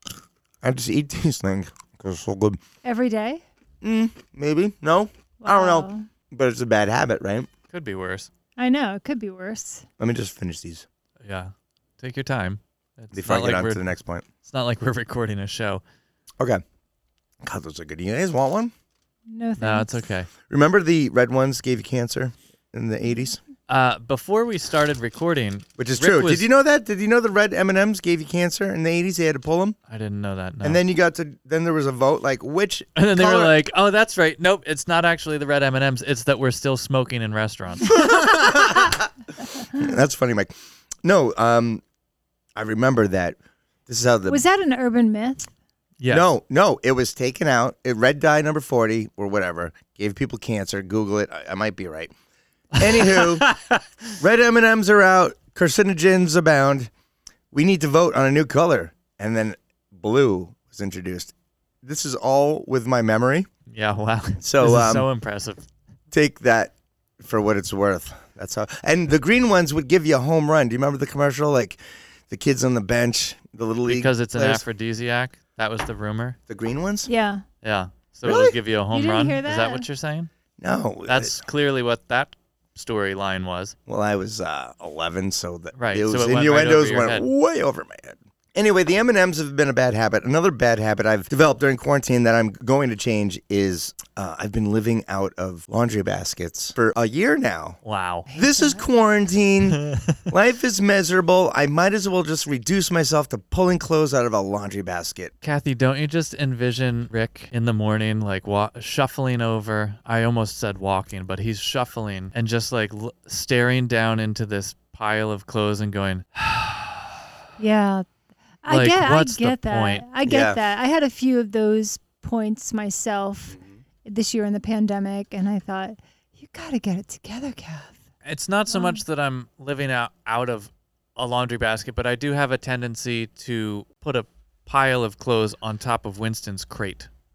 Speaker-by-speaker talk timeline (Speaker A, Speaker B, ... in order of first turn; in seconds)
Speaker A: 0.6-2.6, 3.8-7.5, 10.0-10.8, 13.1-14.2, 17.4-18.7, 20.5-23.4, 25.8-29.8, 30.6-33.5, 37.9-39.1, 39.7-40.5, 41.0-41.8, 42.5-44.4, 46.1-52.1, 52.7-53.5, 54.2-56.9, 57.5-63.5, 64.4-65.1, 66.1-74.6, 76.5-77.1, 78.2-78.6, 80.6-81.4, 83.9-97.8, 98.3-105.3, 120.2-120.6
Speaker B: 2.8-3.4, 5.4-6.1, 8.6-9.8, 19.3-19.9, 44.3-45.5, 77.1-77.4, 78.9-79.8, 98.3-98.8, 117.6-118.0, 118.6-128.0, 128.7-129.0
Speaker C: 7.7-8.3, 11.2-13.8, 14.4-15.8, 19.6-20.3, 23.7-26.4, 29.9-30.8, 33.0-38.0, 46.0-46.2, 52.8-53.8, 63.7-65.6, 73.9-76.4, 77.6-80.3, 81.1-83.7, 85.7-87.3, 97.8-98.2, 99.7-100.0, 105.4-117.1, 118.7-120.0, 128.2-137.1